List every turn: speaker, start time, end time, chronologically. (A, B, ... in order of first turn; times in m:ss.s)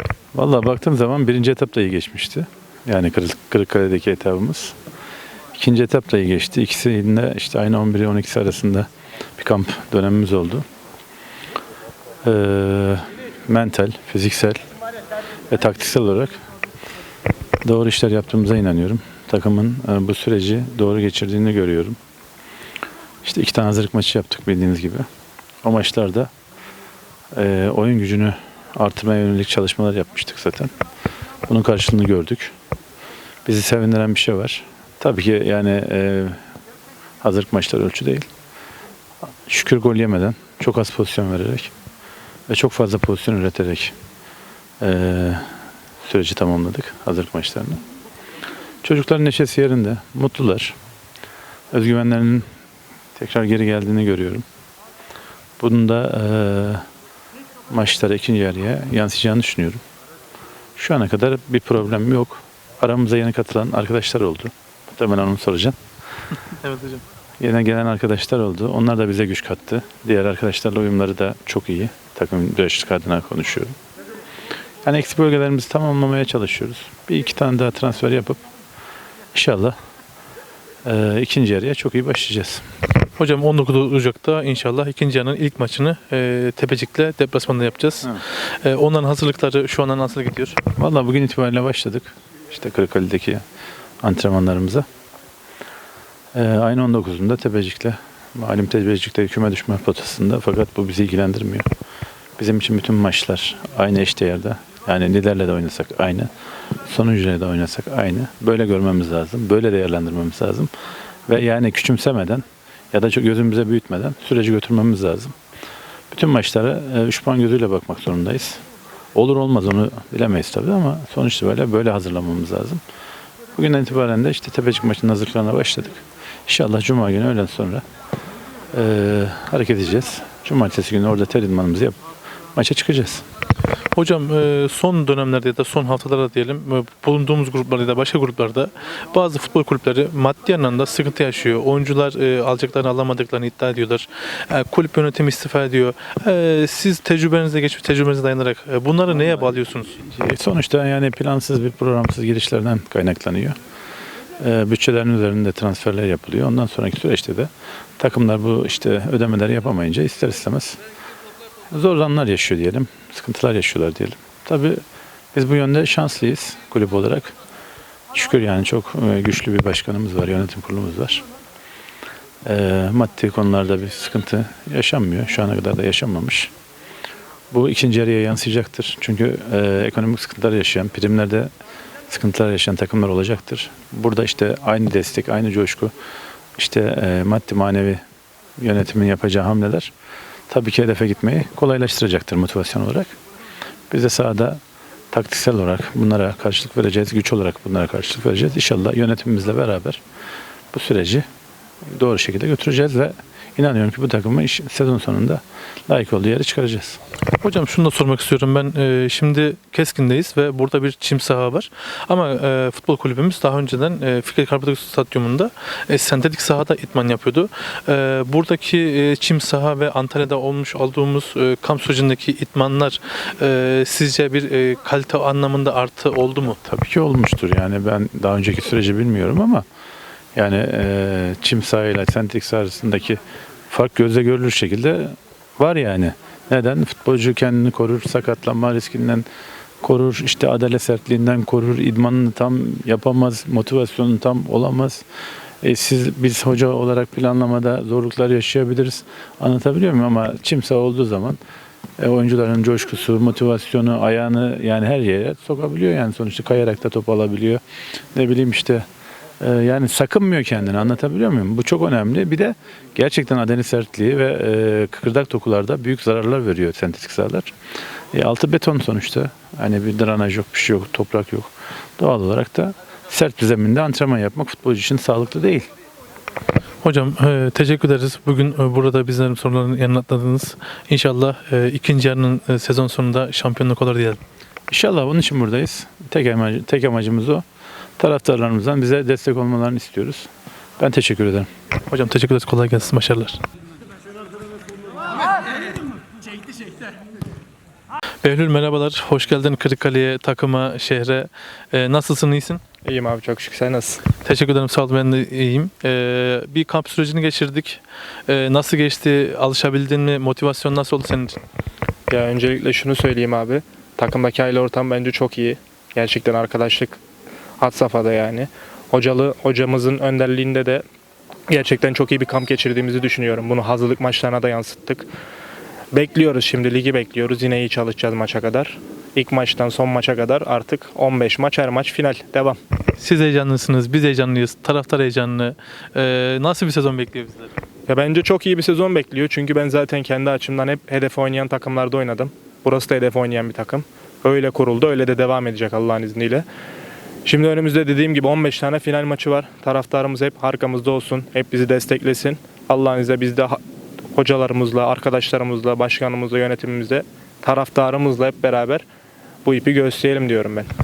0:00.3-0:04.8 A
0:05.6-0:10.7 A
0:12.2-0:14.6 A
0:15.5-0:16.4 A
0:17.6-0:22.0 A
0:23.2-0:25.1 A
0:25.6-0:26.3 A
0:27.4-0:30.7 A
0:31.5-0:32.5 A
0:33.5-0:36.4 A
0:37.2-0:38.3 A
0:39.5-0:41.7 A
0:42.5-0:44.0 A
0:44.8-0:45.5 A
0:46.0-0:47.8 A
0:48.8-0:50.8 A
0:51.7-0:52.5 A
0:53.2-0:54.5 A
0:55.6-0:56.9 A
0:57.7-0:59.8 A
1:00.8-1:05.8 A
1:06.5-1:07.0 B
1:07.4-1:13.8 A
1:14.8-1:18.4 A
1:19.3-1:19.8 A
1:20.8-1:22.6 A
1:23.2-1:30.6 B
1:30.8-1:33.4 A
1:34.0-1:34.8 A
1:36.3-1:41.7 A
1:42.4-1:46.3 A
1:46.9-1:50.7 A
1:51.3-1:55.4 A
1:56.1-1:58.6 A
1:59.2-2:02.8 A
2:03.6-2:07.8 A
2:08.7-2:12.0 A
2:12.6-2:13.2 A
2:13.9-2:30.0 B
2:30.0-2:33.6 A
2:34.4-2:40.8 A
2:41.7-2:44.8 A
2:45.3-2:47.3 A
2:48.1-2:51.2 A
2:52.4-2:56.5 A
2:57.5-3:01.5 A
3:02.1-3:05.9 A
3:06.6-3:08.0 A
3:08.6-3:09.9 A
3:10.5-3:13.2 A
3:13.9-3:14.6 A
3:15.1-3:20.0 A
3:20.7-3:21.2 A
3:21.9-3:27.0 A
3:27.3-3:46.6 B
3:46.6-3:49.6 A
3:50.4-3:53.2 A
3:53.7-3:59.2 A
3:59.8-4:05.0 A
4:05.6-4:11.4 A
4:12.0-4:17.6 A
4:18.1-4:18.8 A
4:19.4-4:27.5 A
4:28.1-4:35.7 A
4:36.8-4:44.2 B
4:44.7-4:47.4 A
4:48.0-4:51.5 A
4:51.9-4:53.4 B
4:58.2-5:02.6 B
5:02.8-5:04.0 C
5:04.2-5:11.4 B
5:12.1-5:17.0 C
5:17.6-5:20.8 C
5:21.5-5:25.1 C
5:25.9-5:32.6 C
5:33.0-5:37.5 B
5:37.9-5:46.5 C
5:47.2-5:53.6 C
5:54.1-5:58.8 C
5:59.4-6:00.7 C